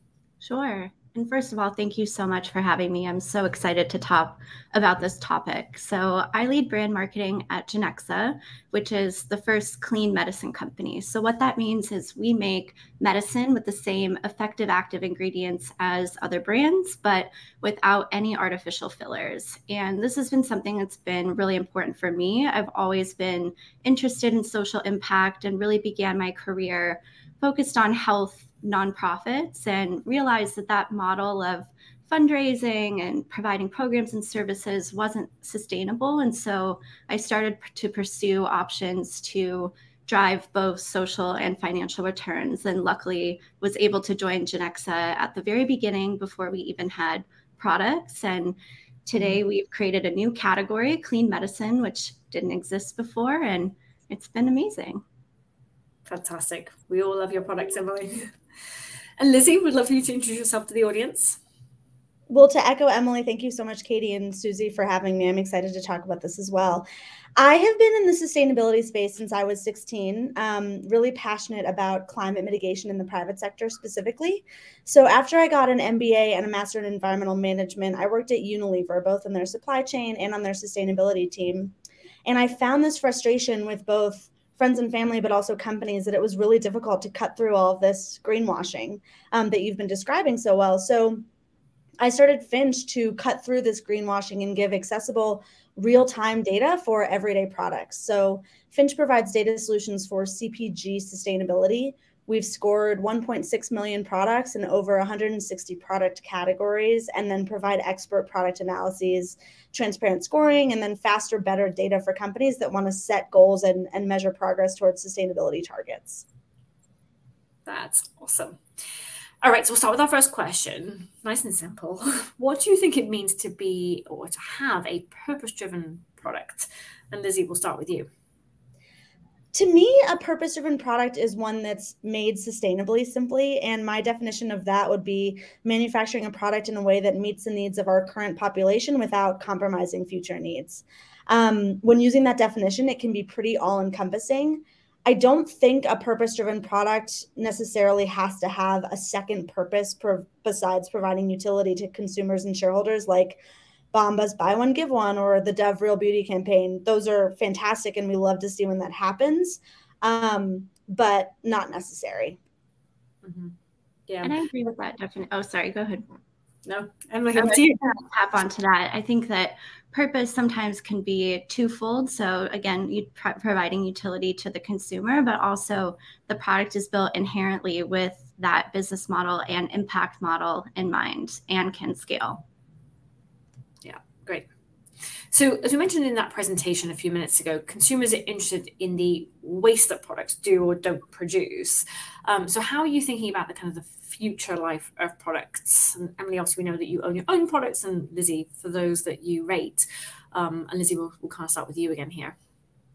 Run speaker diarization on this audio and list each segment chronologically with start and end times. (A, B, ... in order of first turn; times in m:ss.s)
0:00.4-0:55.0 A
0:56.1-0:58.3 B
0:59.2-1:01.4 B
1:02.3-1:06.8 C
1:07.4-1:21.8 C
1:22.3-1:31.2 C
1:32.0-1:56.2 C
1:57.7-1:58.6 B
1:59.4-2:08.1 B
2:09.5-2:33.4 C
2:33.9-2:42.4 C
2:43.2-2:43.6 B
2:44.1-2:44.4 B
2:44.2-2:46.1 A
2:46.7-2:47.8 B
2:47.4-3:02.4 A
3:03.8-3:04.5 B
3:05.3-3:22.4 B